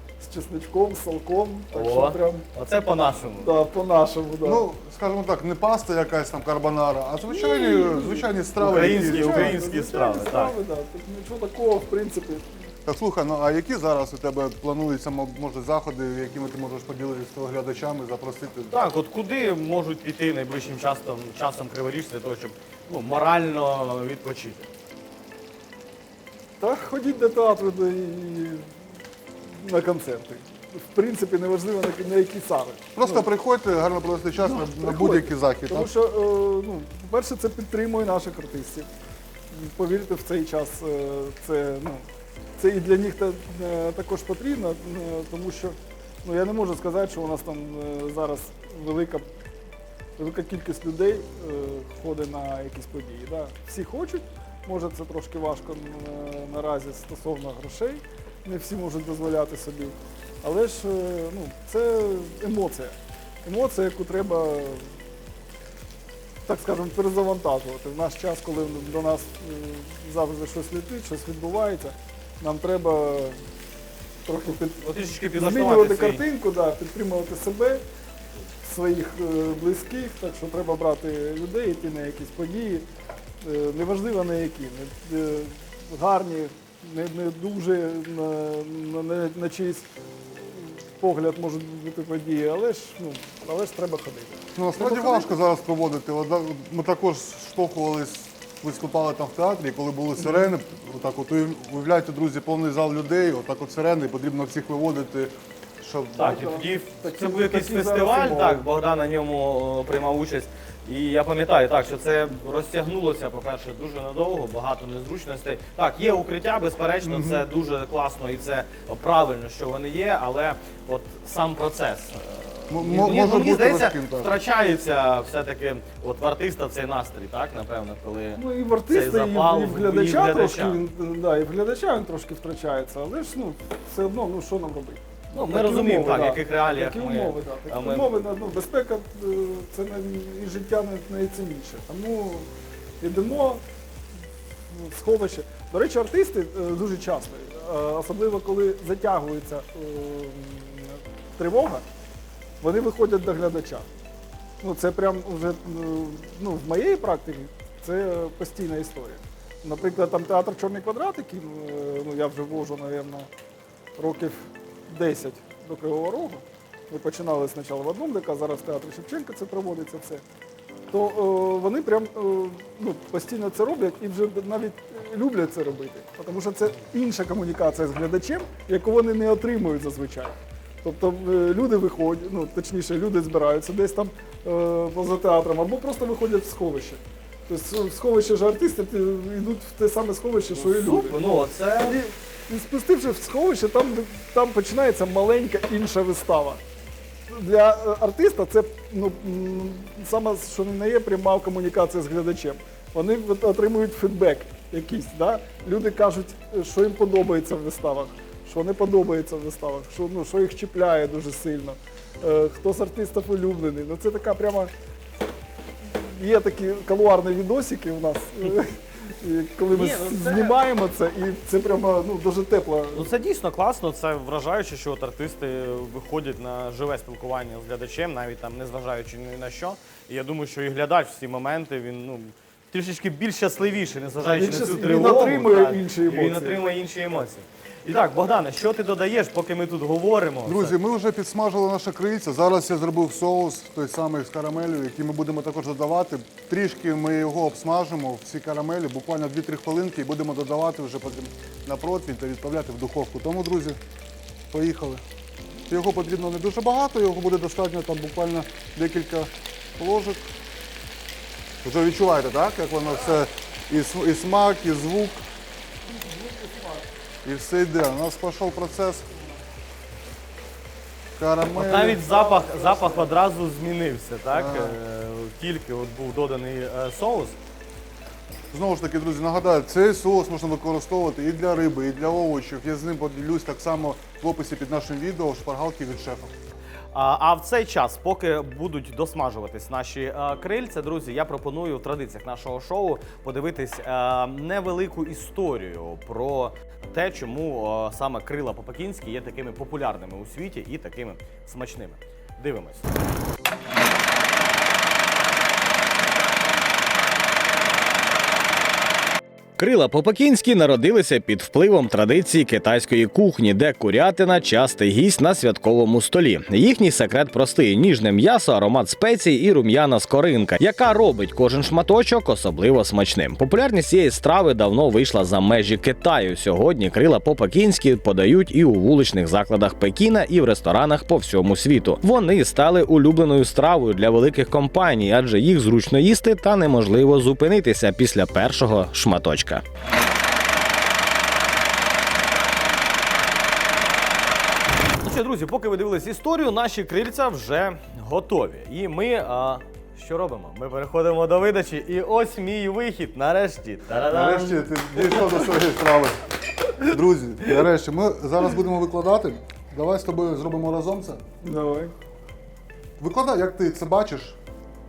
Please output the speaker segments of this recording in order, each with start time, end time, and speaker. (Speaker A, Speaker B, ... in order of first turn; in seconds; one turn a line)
Speaker A: 0.2-2.5
Speaker B: 1.7-3.6
Speaker A: 3.4-4.6
Speaker C: 4.4-9.6
Speaker A: 7.3-12.5
Speaker B: 8.6-10.6
Speaker C: 12.8-18.8
Speaker B: 18.7-24.7
Speaker A: 26.6-28.7
Speaker A: 29.5-33.2
Speaker C: 33.0-35.9
Speaker A: 34.4-38.9
Speaker A: 39.5-42.0
Speaker A: 42.6-49.2
Speaker A: 50.2-64.9
Speaker A: 66.5-73.4
Speaker A: 74.2-77.8
Speaker B: 74.8-76.2
Speaker A: 78.6-82.9
Speaker A: 83.4-89.9
Speaker A: 90.4-95.3
Speaker C: 94.5-106.4
Speaker B: 106.2-130.8
Speaker A: 106.2-108.6
Speaker C: 117.0-117.4
Speaker C: 122.7-124.4
Speaker A: 128.3-142.5
Speaker B: 135.3-138.1
Speaker A: 143.0-143.6
Speaker A: 144.7-151.8
Speaker A: 152.6-153.9
Speaker A: 154.6-163.3
Speaker A: 164.0-170.2
Speaker A: 170.9-196.6
Speaker B: 190.5-192.0
Speaker A: 197.3-214.7
Speaker A: 215.8-223.1
Speaker B: 219.7-220.6
Speaker B: 222.9-240.7
Speaker A: 234.3-236.7
Speaker C: 240.4-253.8
Speaker C: 254.5-255.0
Speaker C: 255.7-260.2
Speaker C: 261.6-265.2
Speaker A: 265.9-266.9
Speaker C: 267.2-269.1
Speaker C: 271.2-272.0
Speaker B: 271.5-277.4
Speaker A: 272.1-273.1
Speaker C: 274.3-274.8
Speaker C: 278.5-286.3
Speaker B: 286.9-302.9
Speaker B: 309.6-339.6
Speaker B: 345.0-355.5
Speaker C: 354.1-356.2
Speaker C: 356.8-361.2
Speaker A: 361.4-361.9
Speaker C: 363.0-364.4